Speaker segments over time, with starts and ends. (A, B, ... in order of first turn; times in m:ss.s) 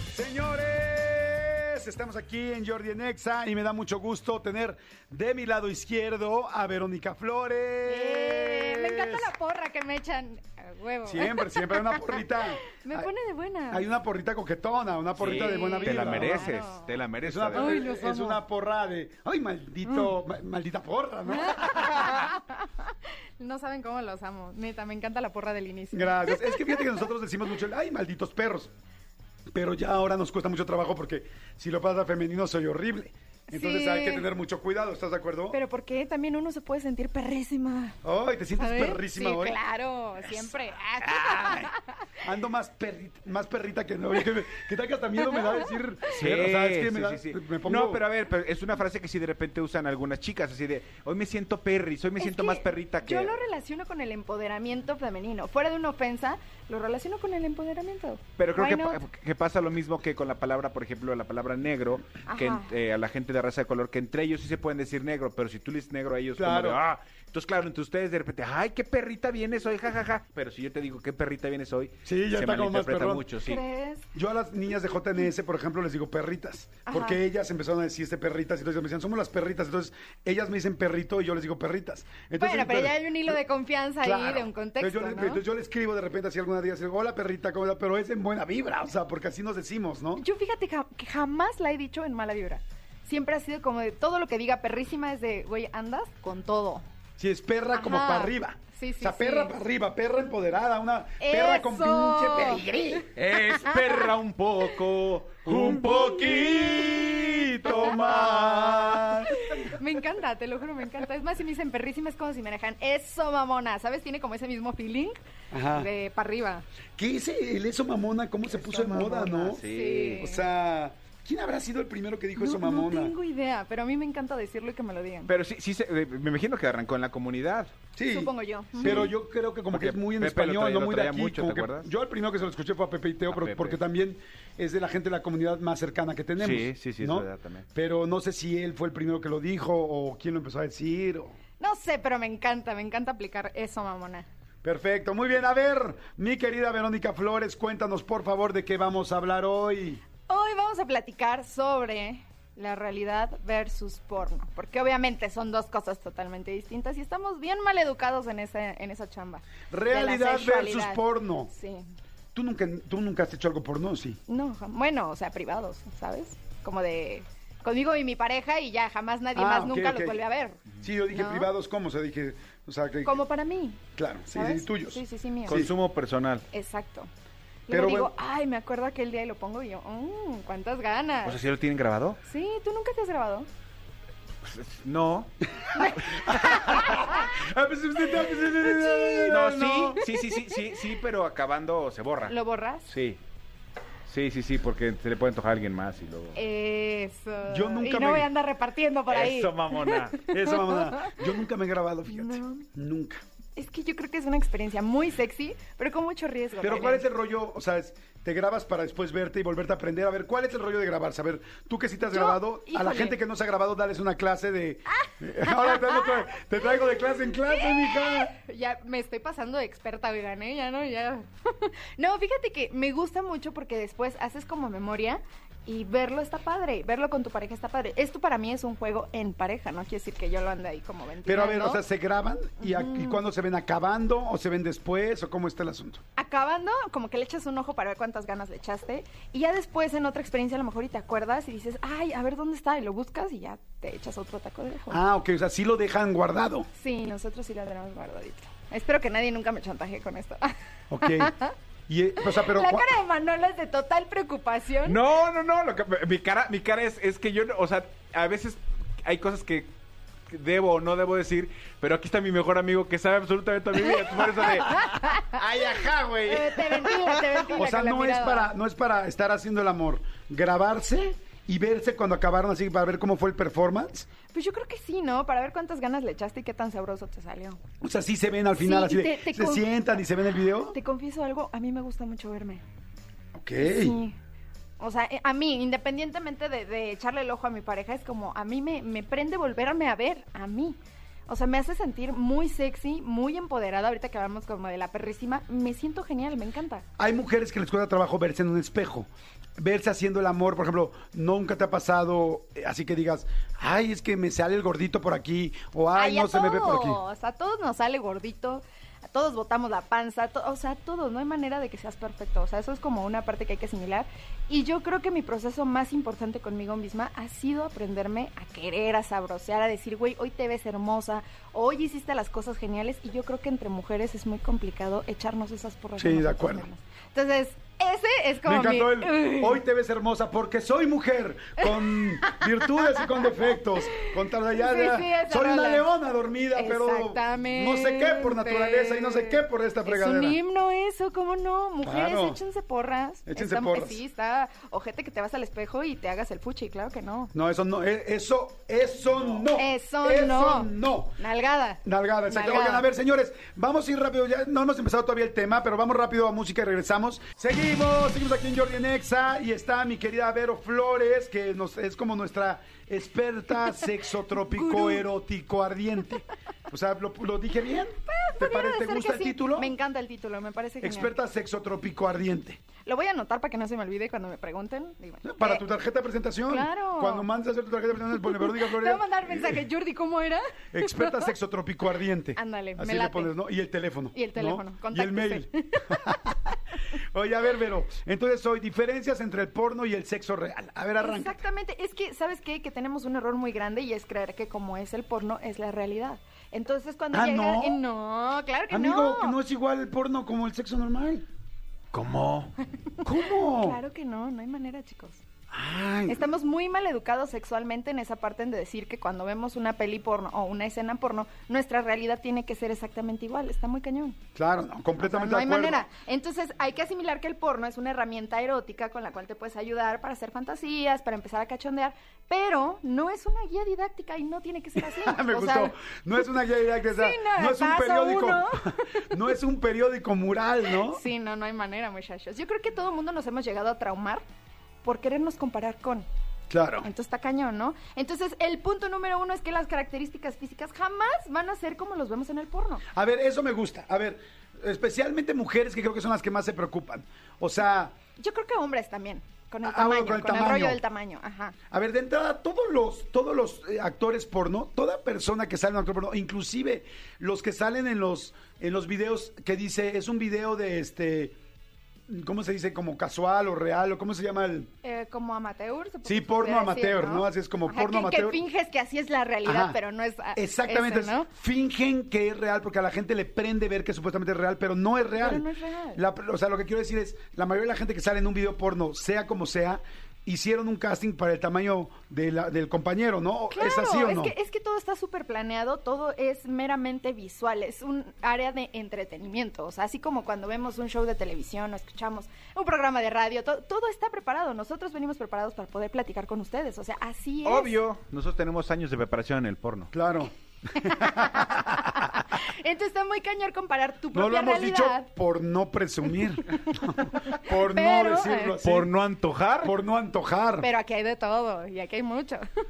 0:00.1-0:09.3 A
0:07.8-0:13.9 B
0:11.0-0:13.1 A
0:13.7-0:16.5 A
0:15.2-0:17.8 C
0:15.2-0:16.9 B
0:17.2-0:22.3 A
0:17.5-0:18.4 B
0:19.8-0:20.1 B
0:21.3-0:27.0 B
0:25.9-0:28.7 A
0:29.5-0:35.6 A
0:33.5-0:34.3 B
0:35.5-0:38.0 B
0:38.0-0:39.6 A
0:38.6-0:42.1 B
0:41.0-0:48.0 A
0:45.2-0:45.7 B
0:46.1-0:53.4 C
0:52.2-0:59.0 B
0:58.4-1:13.6 C
1:02.2-1:02.7 B
1:06.4-1:06.8 A
1:12.0-1:13.3 A
1:13.4-1:14.1 B
1:14.1-1:23.4 A
1:16.9-1:17.2 B
1:22.4-1:25.4 B
1:24.0-1:30.2 A
1:30.2-1:36.8 B
1:37.2-1:43.1 A
1:37.7-1:39.5 B
1:41.2-1:42.6 B
1:43.1-1:48.5 C
1:43.6-1:43.9 B
1:45.4-1:49.6 A
1:47.6-1:56.6 B
1:55.5-1:55.9 A
1:57.0-2:03.1 A
1:58.5-2:00.4 B
1:59.5-2:00.3 C
2:02.4-2:05.3 B
2:05.2-2:07.7 C
2:07.9-2:21.3 A
2:08.0-2:09.1 B
2:08.8-2:09.1 C
2:09.7-2:11.9 C
2:13.3-2:13.8 C
2:16.4-2:17.6 C
2:21.6-2:24.3 B
2:24.6-2:30.0 A
2:30.3-2:41.8 B
2:39.7-2:41.5 A
2:42.3-2:44.2 A
2:44.3-2:51.5 B
2:49.3-2:50.2 A
2:50.8-2:53.2 A
2:53.0-2:55.6 B
2:54.0-2:55.7 A
2:55.5-2:56.4 C
2:56.5-2:57.1 B
2:57.7-3:01.4 B
2:57.7-2:58.1 A
3:01.2-3:02.2 C
3:02.2-3:03.5 B
3:04.4-3:05.3 C
3:05.7-3:07.3 B
3:05.8-3:10.0 A
3:08.6-3:09.4 B
3:09.3-3:12.3 C
3:10.0-3:10.6 B
3:12.2-3:12.9 B
3:12.9-3:13.2 C
3:14.1-3:16.4 C
3:16.3-3:21.2 B
3:17.5-3:18.3 A
3:19.1-3:20.2 C
3:20.2-3:23.2 A
3:22.1-3:22.6 B
3:23.6-3:27.0 B
3:26.6-3:38.3 A
3:32.1-3:33.2 B
3:35.0-3:36.3 B
3:37.0-3:51.8 B
3:51.2-3:56.0 A
3:52.6-3:53.2 B
3:56.2-4:05.0 B
4:04.9-4:06.7 A
4:06.8-4:11.5 B
4:10.9-4:12.9 A
4:12.2-4:15.0 B
4:14.8-4:19.7 C
4:20.3-4:27.4 C
4:26.2-4:28.5 B
4:27.5-4:34.1 A
4:34.3-4:37.6 B
4:37.8-4:40.8 A
4:38.6-4:39.7 B
4:40.7-4:42.6 B
4:43.3-4:44.0 A
4:43.6-4:44.1 B
4:44.8-4:56.8 B
4:57.0-5:07.0 A
5:05.9-5:29.6 B
5:26.0-5:26.7 A
5:28.4-5:40.4 A
5:31.6-5:33.3 B
5:34.0-5:35.9 B
5:36.5-5:47.3 B
5:41.8-5:42.4 A
5:43.3-5:44.0 A
5:47.3-5:51.2 A
5:49.5-5:52.9 B
5:51.8-6:09.7 A
6:04.4-6:05.0 B
6:08.0-6:11.1 B
6:10.8-6:12.6 A
6:12.8-6:15.7 B
6:15.2-6:19.6 A
6:16.5-6:17.3 B
6:18.1-6:21.3 B
6:20.7-6:26.4 A
6:22.4-6:23.3 B
6:24.1-6:26.6 B
6:27.0-6:31.4 A
6:31.0-6:39.4 B
6:37.1-6:37.8 A
6:38.7-6:41.2 A
6:41.9-6:42.5 C
6:43.0-6:43.8 A
6:43.2-6:45.2 B
6:45.5-6:46.3 A
6:46.1-6:54.2 B
6:54.3-6:55.8 A
6:55.0-7:05.7 B
7:04.8-7:11.0 A
7:06.9-7:09.2 B
7:10.7-7:14.2 B
7:14.8-7:16.1 B
7:16.5-7:16.9 A
7:16.8-7:22.8 B
7:22.9-7:27.9 A
7:28.2-7:31.6 B
7:29.6-7:30.8 A
7:31.7-7:41.4 A
7:42.1-7:44.7 A
7:44.8-7:51.3 B
7:46.0-7:48.4 A
7:49.4-7:49.8 A
7:50.3-8:04.3 A
7:55.2-7:56.0 B
8:03.5-8:17.8 B
8:17.4-8:19.9 C
8:19.9-8:22.1 A
8:20.8-8:25.1 B
8:24.1-8:28.9 A
8:26.7-8:28.6 B
8:28.6-8:29.7 C
8:29.6-8:30.7 A
8:30.6-8:32.4 B